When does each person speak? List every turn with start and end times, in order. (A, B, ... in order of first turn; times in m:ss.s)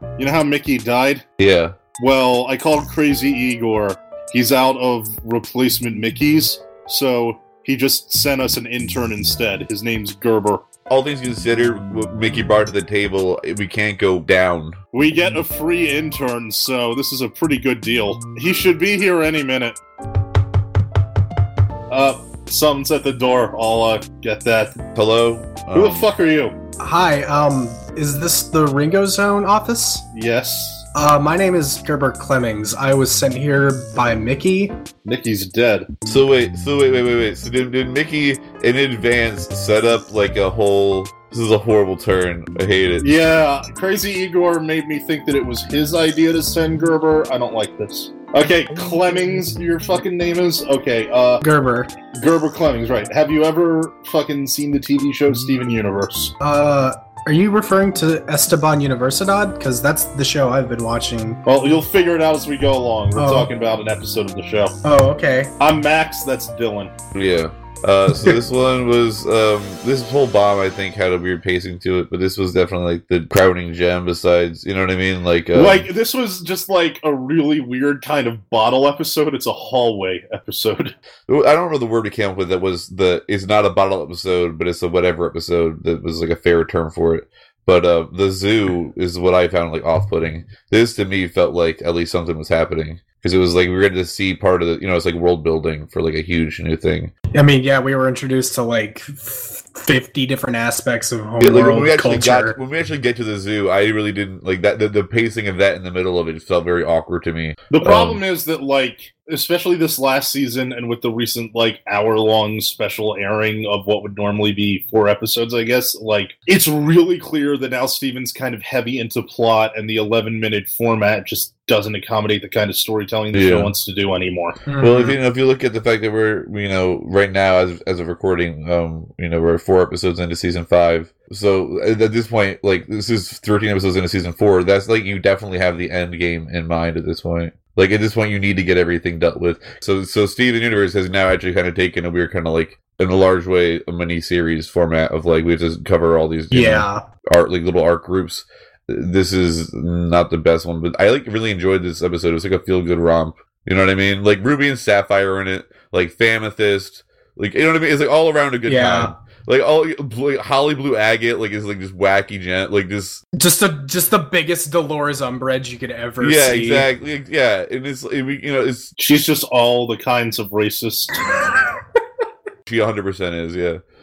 0:00.2-0:01.2 A
0:01.4-0:01.7 B
0:02.0-0:10.6 A
0:10.9-0:14.8 B
0:14.9-0:19.8 A
0:21.9-0:24.8 A
0:25.0-0:26.1 B
0:25.7-0:26.6 A
0:26.8-0:30.0 C
0:30.1-0:30.9 A
0:30.9-0:34.8 C
0:35.0-0:35.9 A
0:36.0-0:43.1 B
0:43.0-0:51.4 A
0:51.4-0:52.0 C
0:52.1-0:56.3 A
0:56.4-1:01.4 C
1:01.4-1:04.8 A
1:03.2-1:03.5 C
1:04.8-1:05.5 C
1:05.6-1:06.9 A
1:07.1-1:15.8 B
1:15.5-1:20.9 A
1:21.3-1:37.1 B
1:37.3-1:42.6 C
1:41.4-1:48.2 B
1:47.7-2:04.6 A
2:03.3-2:03.7 B
2:04.7-2:05.2 C
2:04.8-2:43.2 B
2:26.5-2:27.0 C
2:38.6-2:39.1 C
2:43.4-2:46.9 C
2:46.2-2:48.9 B
2:49.0-2:51.2 A
2:51.3-2:51.7 C
2:52.7-2:53.8 B